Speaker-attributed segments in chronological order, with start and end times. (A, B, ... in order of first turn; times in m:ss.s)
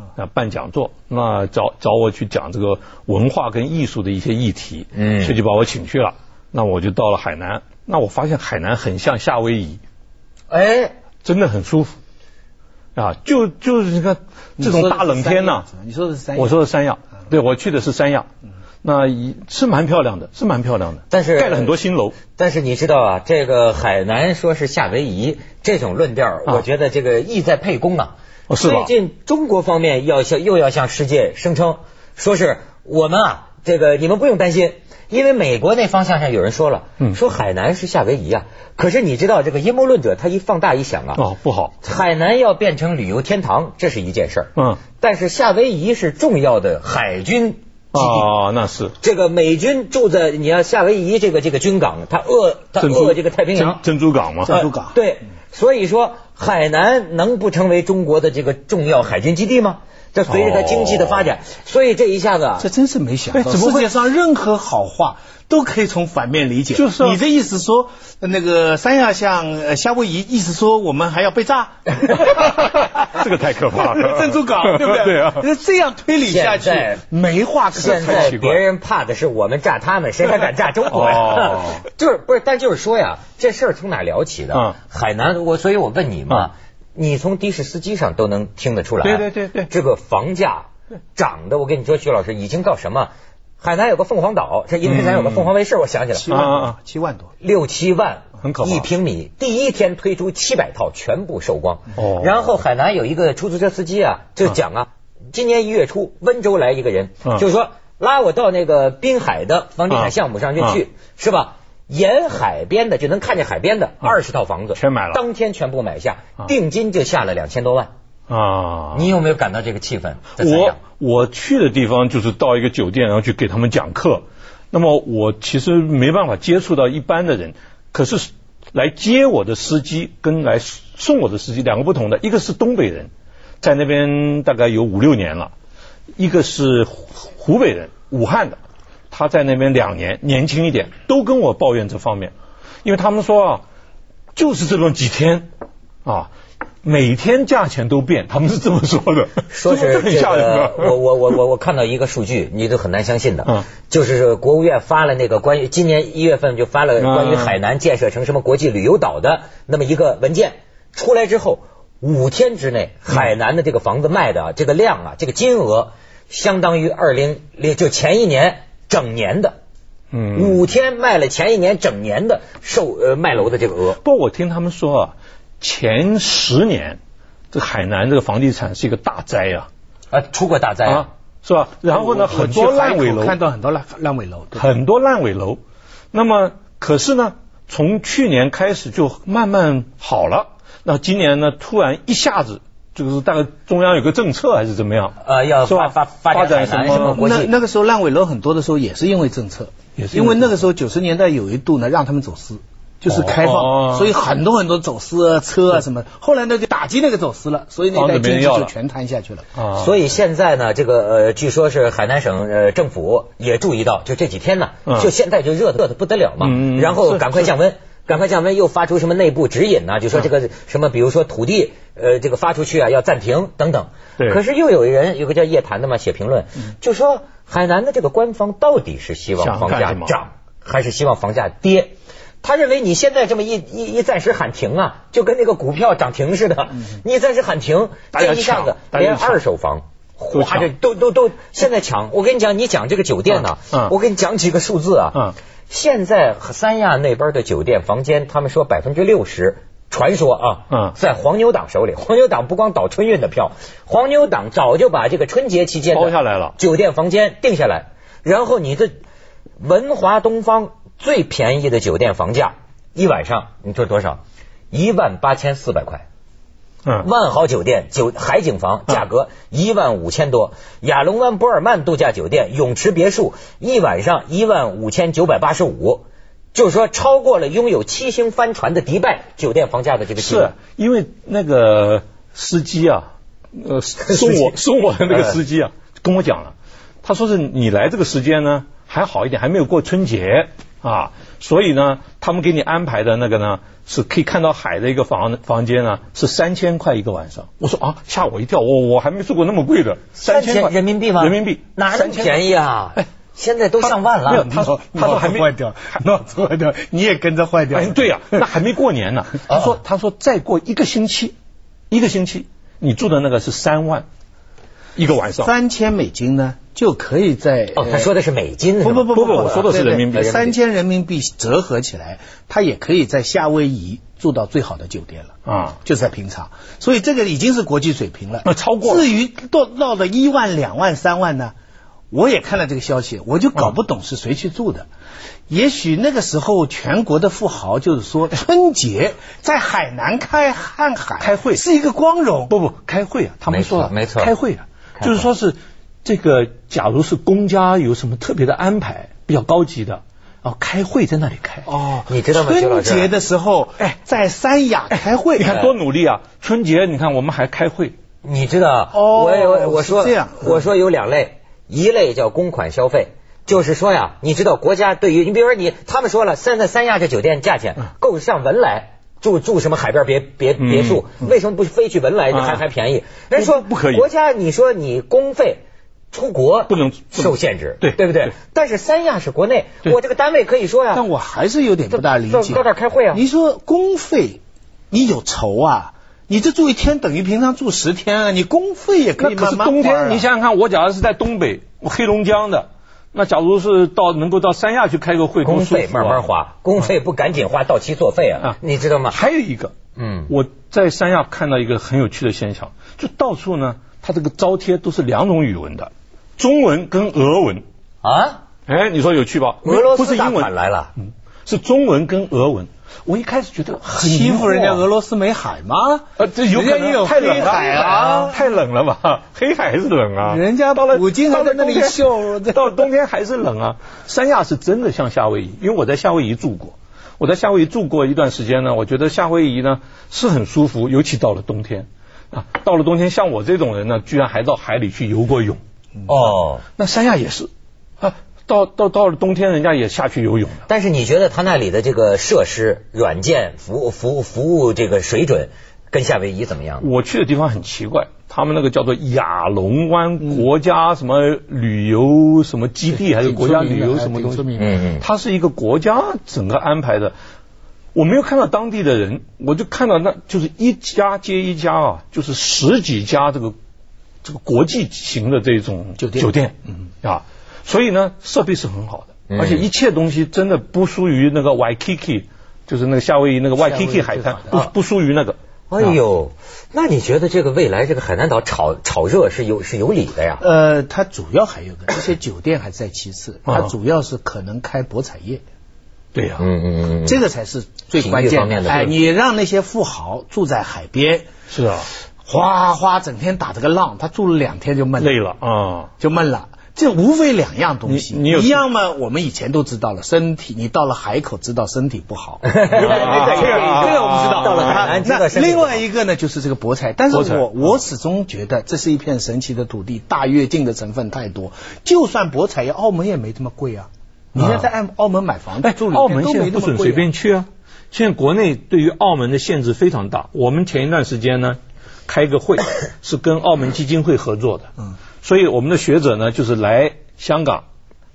0:00.2-0:09.8 A
0:04.9-0:05.4 B
0:10.5-0:11.0 B
0:11.2-0:12.0 A
0:13.0-0:15.7 A
0:14.6-0:16.6 C
0:16.4-0:18.3 A
0:18.8-0:22.2 A
0:21.1-0:21.8 B
0:22.3-0:41.2 B
0:28.5-0:28.9 A
0:41.2-0:41.7 A
0:41.8-0:48.3 B
0:44.6-0:44.8 A
0:47.9-0:49.0 A
0:49.0-0:53.8 B
0:52.8-0:54.7 A
0:54.4-0:55.0 C
0:54.5-1:02.7 B
1:00.3-1:01.3 A
1:02.6-1:12.8 C
1:03.3-1:03.9 A
1:06.7-1:07.2 A
1:12.4-1:15.5 A
1:13.7-1:18.3 C
1:16.2-1:17.0 B
1:17.7-1:36.5 B
1:17.8-1:18.6 A
1:20.9-1:21.8 A
1:29.0-1:29.7 A
1:34.8-1:35.5 A
1:36.2-1:37.3 C
1:36.3-1:36.8 A
1:37.4-1:57.9 B
1:38.4-1:38.9 A
1:42.0-1:42.5 A
1:49.9-1:50.8 A
1:54.8-1:55.2 A
1:58.3-1:59.1 A
1:58.9-2:00.8 B
2:00.4-2:13.1 A
2:13.6-2:15.5 A
2:16.2-2:18.6 A
2:19.1-2:23.6 A
2:24.4-2:25.5 A
2:26.0-2:26.3 A
2:26.8-2:31.0 A
2:29.5-2:49.6 B
2:37.0-2:37.6 A
2:50.1-2:50.6 A
2:50.3-2:54.0 B
2:54.0-2:57.0 A
2:57.5-2:59.7 A
3:00.1-3:01.1 B
3:00.8-3:03.4 A
3:01.9-3:04.7 C
3:04.6-3:05.6 A
3:06.1-3:17.2 A
3:15.2-3:17.5 B
3:16.9-3:29.5 C
3:20.0-3:20.5 A
3:23.1-3:24.1 A
3:27.9-3:28.7 A
3:29.6-3:30.0 A
3:29.7-4:18.9 B
3:36.4-3:37.5 A
3:49.4-3:50.2 A
3:58.1-3:59.4 A
4:00.3-4:00.7 A
4:03.3-4:03.9 A
4:10.7-4:11.0 A
4:15.9-4:16.6 A
4:19.6-4:26.0 B
4:27.0-4:40.5 B
4:40.2-5:02.4 A
4:44.0-4:44.5 B
4:45.1-4:45.4 B
5:00.2-5:04.5 B
5:03.8-5:05.5 A
5:04.4-5:08.6 C
5:07.7-5:11.3 A
5:09.5-5:09.7 B
5:11.9-5:14.0 A
5:15.0-5:15.5 A
5:15.4-5:18.1 C
5:17.8-5:20.4 B
5:18.8-5:31.5 C
5:19.1-5:20.6 A
5:25.5-5:25.8 A
5:28.4-5:29.1 A
5:32.1-5:34.9 C
5:35.5-5:42.6 C
5:41.2-5:41.6 A
5:42.5-5:51.7 A
5:43.5-5:44.3 B
5:45.0-5:45.3 B
5:51.7-5:55.6 C
5:52.1-5:53.1 B
5:54.9-5:57.9 A
5:58.2-6:21.0 B
5:58.9-6:00.6 C
6:10.6-6:11.0 A
6:12.3-6:12.6 A
6:13.3-6:14.1 A
6:16.7-6:18.3 A
6:20.9-6:24.4 C
6:21.9-6:23.2 B
6:24.9-6:30.3 C
6:29.2-6:36.3 A
6:35.4-6:39.2 B
6:39.1-6:39.7 A
6:40.0-6:40.3 B
6:40.3-6:47.6 A
6:48.0-6:48.4 B
6:48.7-6:54.8 A
6:49.6-6:50.9 B
6:53.9-6:58.5 C
6:56.2-7:15.6 A
7:00.2-7:02.9 C
7:16.1-7:16.6 B
7:16.8-7:17.5 A
7:18.0-7:20.6 A
7:20.7-7:26.9 B
7:26.8-7:37.2 A
7:32.9-7:34.7 C
7:34.6-7:35.1 B
7:38.0-7:43.6 A
7:44.2-7:56.0 A
7:46.0-7:46.3 C
7:49.3-7:49.7 B
7:53.6-7:54.6 C
7:55.7-8:00.4 B
8:00.4-8:05.4 C
8:03.5-8:03.7 A
8:06.1-8:06.4 A
8:06.4-8:07.2 B
8:07.0-8:11.3 C
8:08.0-8:09.0 B
8:08.7-8:08.9 A
8:11.5-8:11.9 A
8:12.2-8:15.2 C
8:15.0-8:15.9 A
8:16.0-8:37.1 C
8:17.9-8:18.6 A
8:22.4-8:25.8 B
8:22.7-8:25.0 A
8:27.1-8:27.6 A
8:34.4-8:34.7 A
8:35.6-8:44.7 A
8:45.2-8:47.6 A